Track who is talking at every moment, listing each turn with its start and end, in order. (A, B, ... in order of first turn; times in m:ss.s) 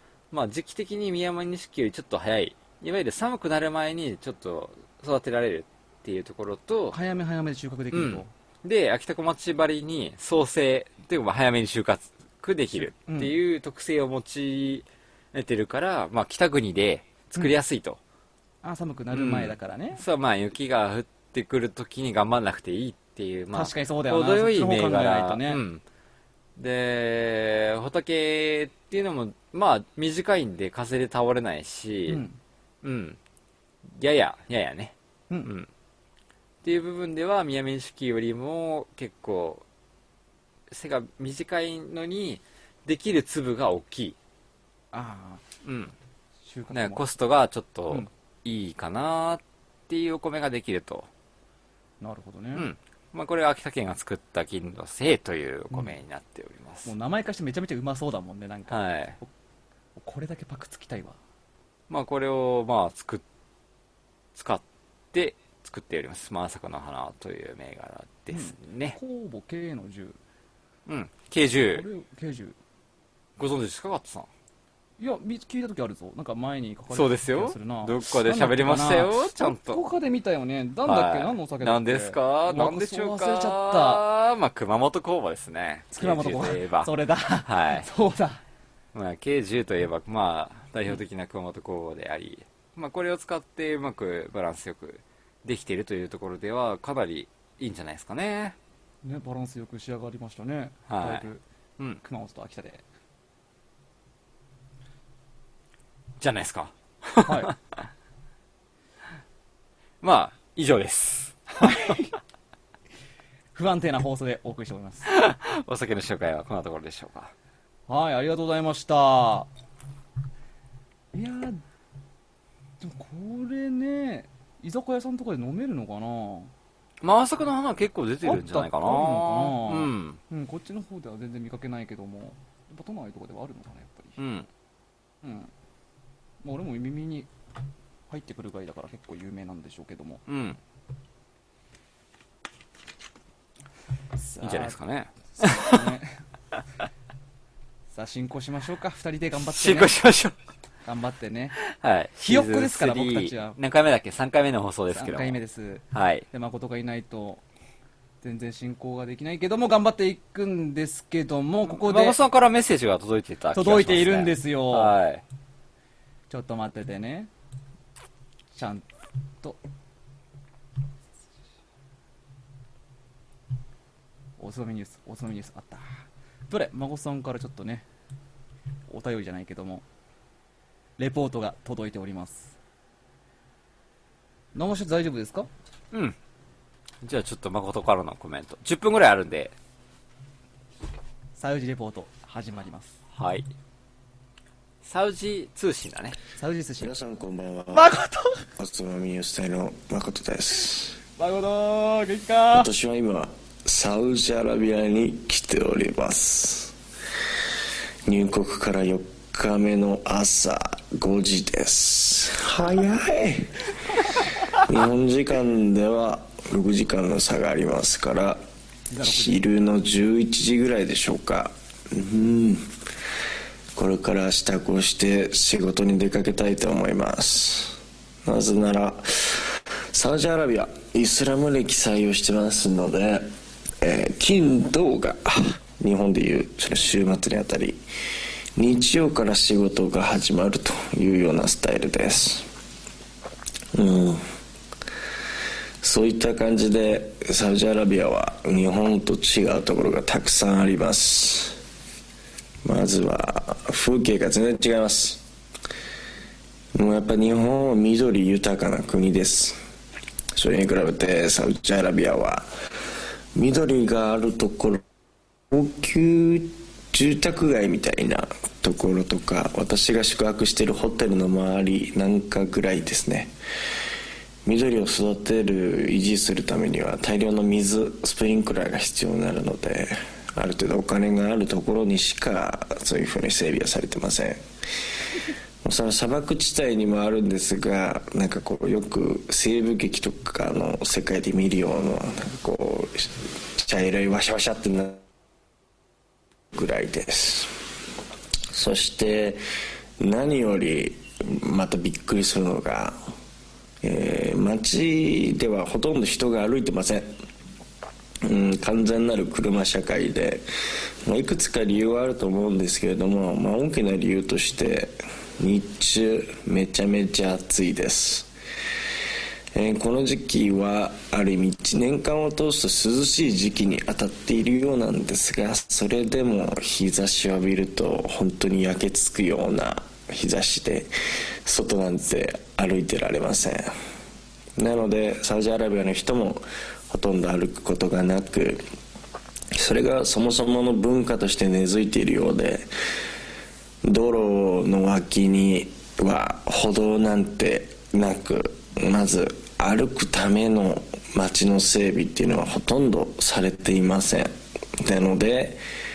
0:00.3-0:07.0 A
0:06.9-0:08.3 B
0:07.9-0:18.0 A
0:13.1-0:13.3 B
0:18.6-0:20.0 B
0:19.1-0:25.8 A
0:23.5-0:25.6 B
0:26.6-0:32.2 A
0:32.1-0:32.4 B
0:32.8-0:33.2 A
0:33.9-0:35.7 A
0:36.6-0:39.6 A
0:40.7-0:44.2 A
0:44.9-0:45.4 B
0:45.6-0:45.9 A
0:46.5-0:47.1 B
0:46.7-0:51.1 A
0:52.0-0:52.7 B
0:52.6-0:56.9 A
0:56.8-0:59.3 B
0:58.7-0:59.2 A
1:00.0-1:01.2 B
1:01.9-1:03.2 A
1:04.4-1:09.0 A
1:08.3-1:10.2 B
1:10.9-1:11.8 A
1:11.7-1:12.6 B
1:13.4-1:14.3 A
1:15.0-1:24.0 B
1:16.9-1:19.8 A
1:20.8-1:26.9 A
1:25.9-1:28.4 B
1:27.4-1:27.9 A
1:28.9-1:38.6 A
1:39.0-1:41.4 B
1:40.9-1:41.2 A
1:42.0-1:42.8 B
1:46.2-1:47.9 A
1:47.2-1:47.5 B
1:50.0-1:52.0 A
1:51.6-1:52.2 B
1:53.5-1:55.1 B
1:55.0-1:57.3 A
1:57.9-1:59.5 B
2:01.1-2:01.6 B
2:02.8-2:06.5 B
2:07.0-2:10.2 A
2:08.2-2:14.2 B
2:14.2-2:14.5 A
2:15.2-2:15.5 B
2:16.4-2:17.3 B
2:18.1-2:20.2 B
2:20.3-2:20.6 A
2:24.2-2:24.8 B
2:24.4-2:25.9 A
2:25.4-2:26.2 B
2:27.9-2:30.0 B
2:29.4-2:30.3 A
2:30.8-2:31.6 B
2:31.6-2:35.4 A
2:32.2-2:33.6 B
2:34.9-2:37.4 B
2:35.9-2:36.3 A
2:38.2-2:42.2 B
2:41.6-2:45.2 A
2:43.5-2:45.0 B
2:46.3-2:47.3 B
2:48.5-2:48.9 B
2:54.4-2:57.9 B
2:58.9-2:59.8 B
3:01.0-3:02.6 B
3:04.6-3:05.5 B
3:07.0-3:09.5 A
3:11.4-3:13.0 B
3:13.1-3:13.5 A
3:14.8-3:16.2 A
3:16.4-3:16.9 B
3:16.8-3:17.9 C
3:17.7-3:18.4 B
3:18.6-3:21.0 C
3:21.2-3:22.7 B
3:22.5-3:26.7 C
3:28.1-3:33.7 C
3:34.5-3:38.4 C
3:38.9-3:39.4 B
3:39.0-3:42.7 C
3:43.8-3:53.3 C
3:53.8-3:57.8 C
3:58.6-4:02.5 C
4:03.7-4:04.2 C
4:05.8-4:11.6 C
4:12.6-4:15.2 C
4:16.8-4:19.6 C
4:20.4-4:22.5 C
4:23.4-4:24.8 C
4:25.5-4:33.3 C
4:34.4-4:44.4 C
4:45.6-4:55.0 C
4:56.5-4:57.5 C
4:58.5-4:59.4 C
5:00.0-5:03.0 C
5:03.8-5:07.1 C
5:08.2-5:10.4 C
5:11.1-5:18.3 C
5:19.5-5:30.9 C
5:31.4-5:33.7 C
5:34.6-5:38.6 C
5:39.5-5:42.7 C
5:43.8-5:55.6 C